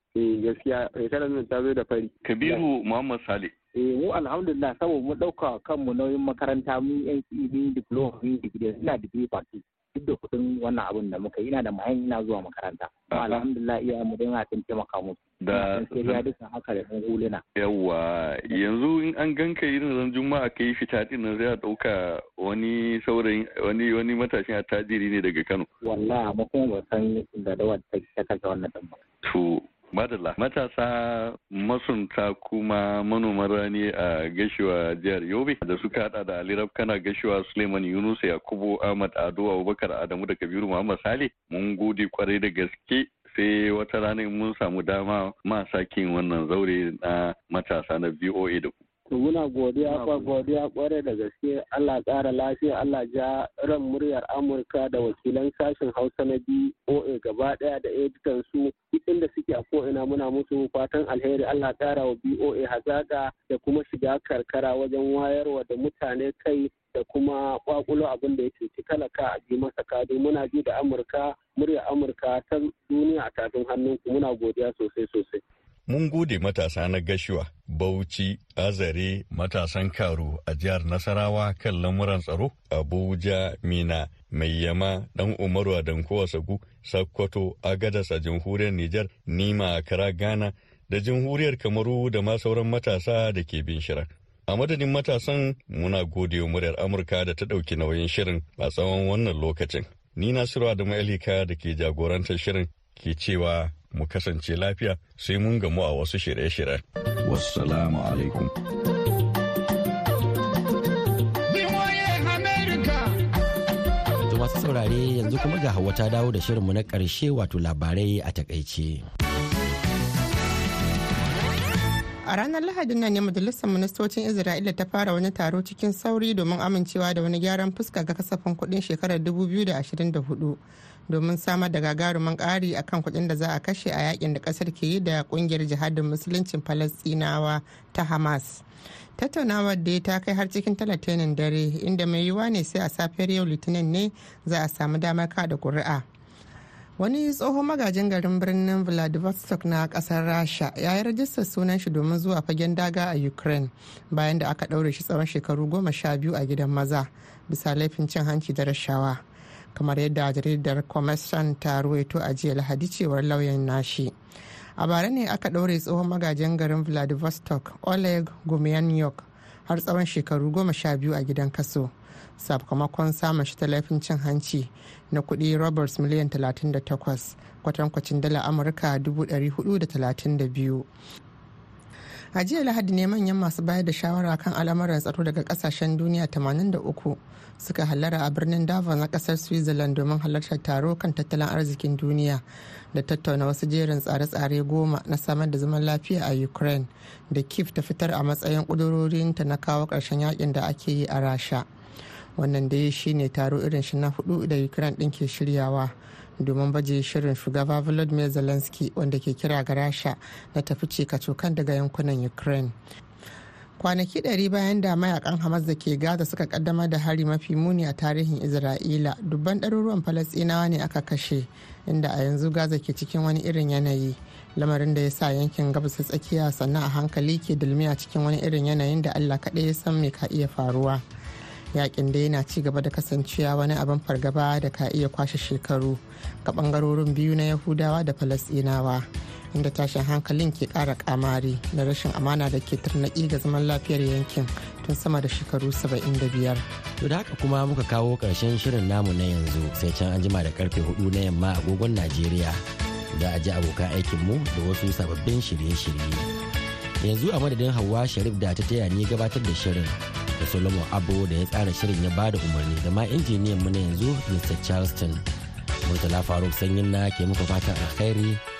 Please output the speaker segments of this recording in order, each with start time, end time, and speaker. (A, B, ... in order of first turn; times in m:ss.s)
0:00.1-0:02.1 A
0:02.2-0:03.5 B
0:03.7-0:17.4 C
0:13.1-0:13.4 B
0:15.4-0:16.2 B
0:17.6-0:25.7 B
0:25.8-0:29.0 C
0:29.2-0:48.7 B
0:49.1-1:15.4 D
1:15.9-1:48.5 B
1:54.3-1:59.0 E
2:02.3-2:18.6 F
2:19.2-2:26.0 F
2:27.0-2:39.2 F
2:39.7-2:44.1 F
2:44.8-3:00.9 F
3:02.4-3:12.4 F
3:12.9-3:21.6 F
3:22.4-3:32.7 F
3:33.8-3:51.0 F
3:51.7-4:06.6 F
4:07.0-4:16.2 E
4:17.0-4:25.2 E
4:25.8-4:28.4 E